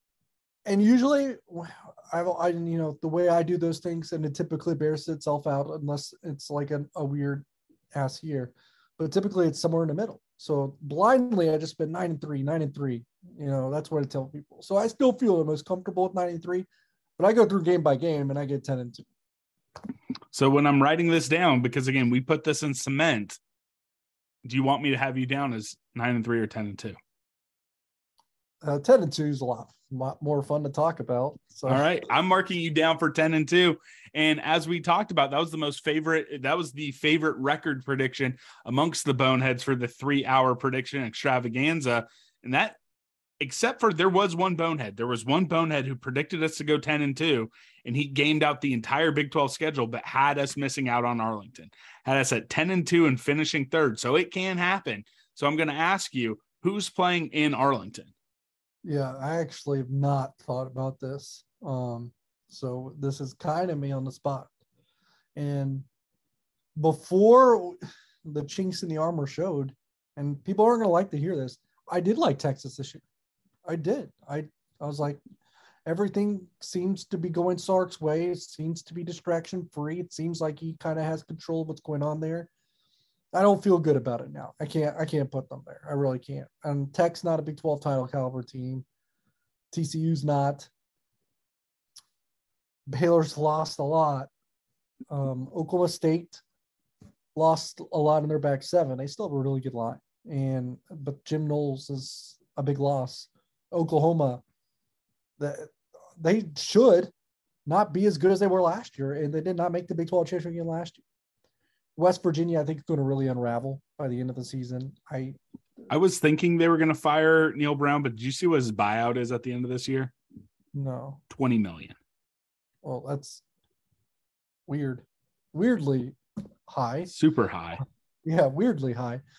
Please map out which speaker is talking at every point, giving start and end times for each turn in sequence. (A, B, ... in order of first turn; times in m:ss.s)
0:00.6-0:16.7 A
0:17.2-0:19.0 A
0:20.3-0:23.4 B
0:24.4-0:27.0 B
0:28.6-0:31.8 A
0:31.6-0:42.8 B
0:43.4-0:58.1 B
0:58.8-1:04.5 A
1:05.4-1:05.8 A
1:06.8-1:13.0 A
1:13.6-1:15.2 A
1:15.8-1:22.5 A
1:23.3-1:28.8 A
1:29.7-1:30.7 A
1:32.9-1:34.3 A
1:35.1-1:36.4 A
1:37.3-1:44.4 A
1:45.4-1:47.1 A
1:47.6-1:51.0 A
1:52.0-1:55.4 A
1:55.9-2:00.1 B
2:00.7-2:01.2 A
2:01.3-2:02.0 B
2:02.8-2:03.4 A
2:04.7-2:07.1 A
2:07.1-2:07.8 B
2:08.2-2:09.2 A